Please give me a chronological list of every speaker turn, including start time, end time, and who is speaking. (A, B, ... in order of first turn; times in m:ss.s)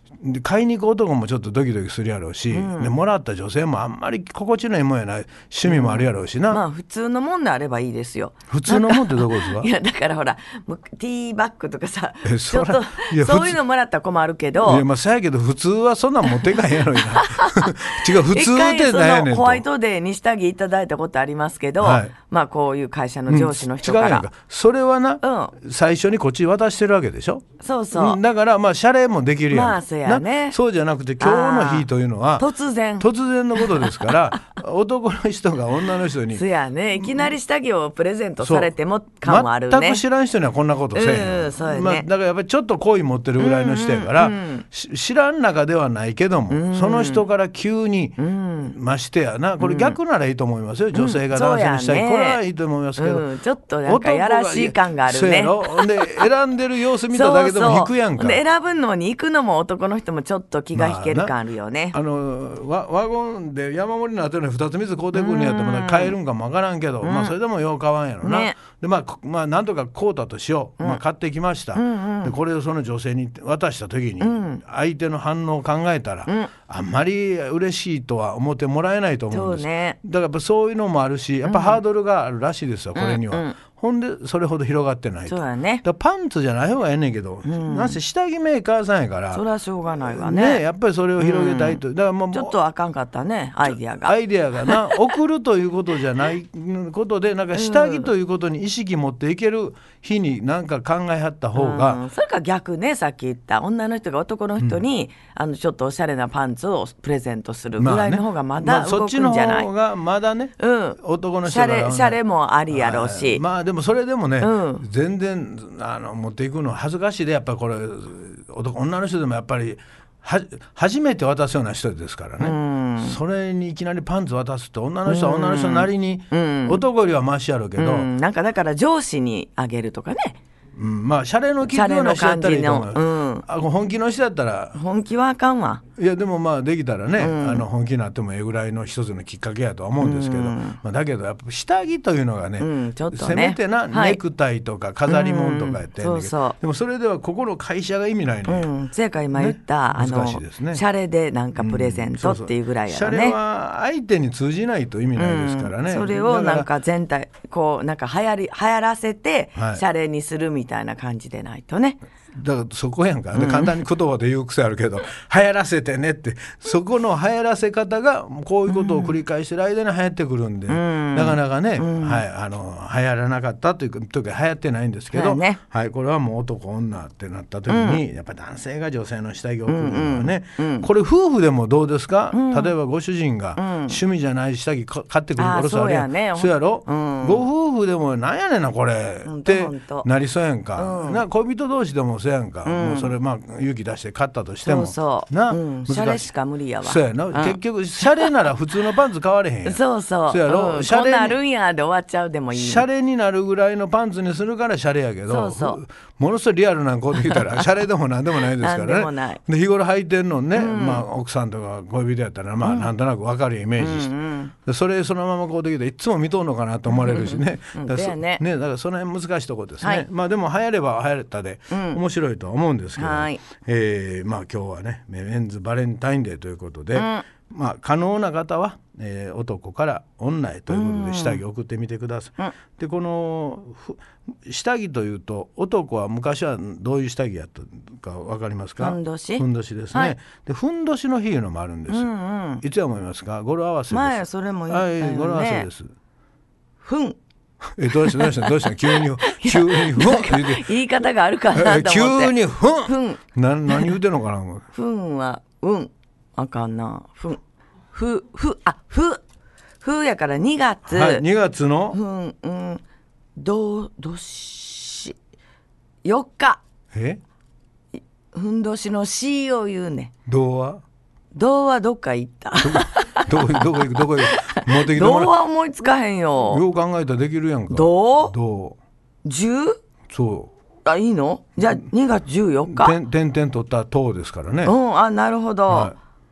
0:00.2-0:06.6 A
0:02.5-0:02.9 B
0:05.6-0:14.9 B
0:08.5-0:09.7 A
0:12.2-0:13.6 A
0:14.6-0:19.6 A
0:16.4-0:24.3 B
0:21.8-0:22.1 A
0:23.3-0:32.5 A
0:25.2-0:25.6 B
0:27.6-0:28.2 B
0:29.5-0:30.6 B
0:31.2-0:34.3 B
0:33.0-0:36.4 A
0:36.3-0:40.0 B
0:37.0-0:37.3 A
0:38.4-0:53.3 A
0:40.9-0:42.1 B
0:43.4-0:44.6 B
0:46.5-0:47.2 B
0:48.2-0:48.8 B
0:49.6-0:50.0 B
0:50.9-0:52.4 B
0:53.0-0:56.3 B
0:53.9-0:58.4 A
0:57.1-1:02.0 B
1:00.7-1:01.3 A
1:01.9-1:29.4 A
1:05.1-1:06.2 B
1:07.0-1:07.4 B
1:08.2-1:08.6 B
1:11.7-1:12.4 B
1:14.2-1:14.6 B
1:16.3-1:16.5 B
1:19.3-1:20.0 B
1:21.4-1:21.8 B
1:23.0-1:23.6 B
1:25.3-1:25.8 B
1:27.4-1:28.0 B
1:29.3-1:30.6 B
1:30.0-1:32.6 A
1:31.2-1:35.1 B
1:33.6-1:42.0 A
1:37.5-1:38.1 B
1:41.6-1:49.7 B
1:44.6-1:44.8 A
1:47.8-2:08.1 A
1:50.6-1:53.4 B
1:54.4-1:54.8 B
2:02.4-2:03.2 B
2:05.0-2:06.8 B
2:07.8-2:10.4 B
2:10.8-2:14.8 A
2:11.7-2:13.5 B
2:14.7-2:15.8 B
2:16.0-2:28.7 A
2:17.2-2:17.6 B
2:20.0-2:20.8 B
2:22.6-2:24.2 B
2:25.1-2:26.6 B
2:28.5-2:33.4 B
2:29.3-2:30.8 A
2:31.6-2:36.7 A
2:35.1-2:42.0 B
2:39.6-2:39.8 A
2:42.3-3:16.3 A
2:43.3-2:43.8 B
2:48.7-2:49.2 B
2:50.7-2:52.2 B
2:55.1-2:55.6 B
2:57.7-2:58.0 B
2:59.7-3:00.9 B
3:02.3-3:02.8 B
3:03.6-3:04.0 B
3:05.4-3:07.5 B
3:09.2-3:10.1 B
3:10.8-3:11.2 B
3:12.6-3:13.1 B
3:14.6-3:18.4 B
3:16.8-3:21.4 A
3:19.6-3:22.9 B
3:22.5-3:34.1 A
3:25.3-3:25.8 B
3:28.6-3:29.4 B
3:30.6-3:31.0 B
3:32.6-3:32.9 B
3:33.8-3:34.5 B
3:34.6-4:02.1 A
3:36.9-3:38.4 B
3:41.7-3:42.0 B
3:43.0-3:43.4 B
3:47.0-3:47.2 B
3:50.7-3:51.4 B
3:58.8-4:00.1 B
4:01.9-4:02.6 B
4:02.6-4:05.9 A
4:03.9-4:05.7 B
4:06.8-4:07.2 B
4:07.8-4:10.6 A
4:07.9-4:14.0 B
4:11.5-4:14.6 A
4:14.7-4:19.2 B
4:19.8-4:21.2 B
4:20.9-4:22.0 A
4:21.9-4:22.8 B
4:23.4-4:25.2 B
4:26.0-4:26.6 B
4:26.9-4:27.2 A
4:28.3-4:30.1 B
4:30.2-4:30.8 A
4:31.3-4:36.6 B
4:32.6-4:35.4 A
4:36.5-4:38.8 A
4:37.7-4:38.4 B
4:39.2-4:39.8 B
4:40.1-4:40.5 A
4:40.8-4:43.0 B
4:42.7-4:44.8 A
4:44.6-4:45.9 B
4:45.7-4:46.0 A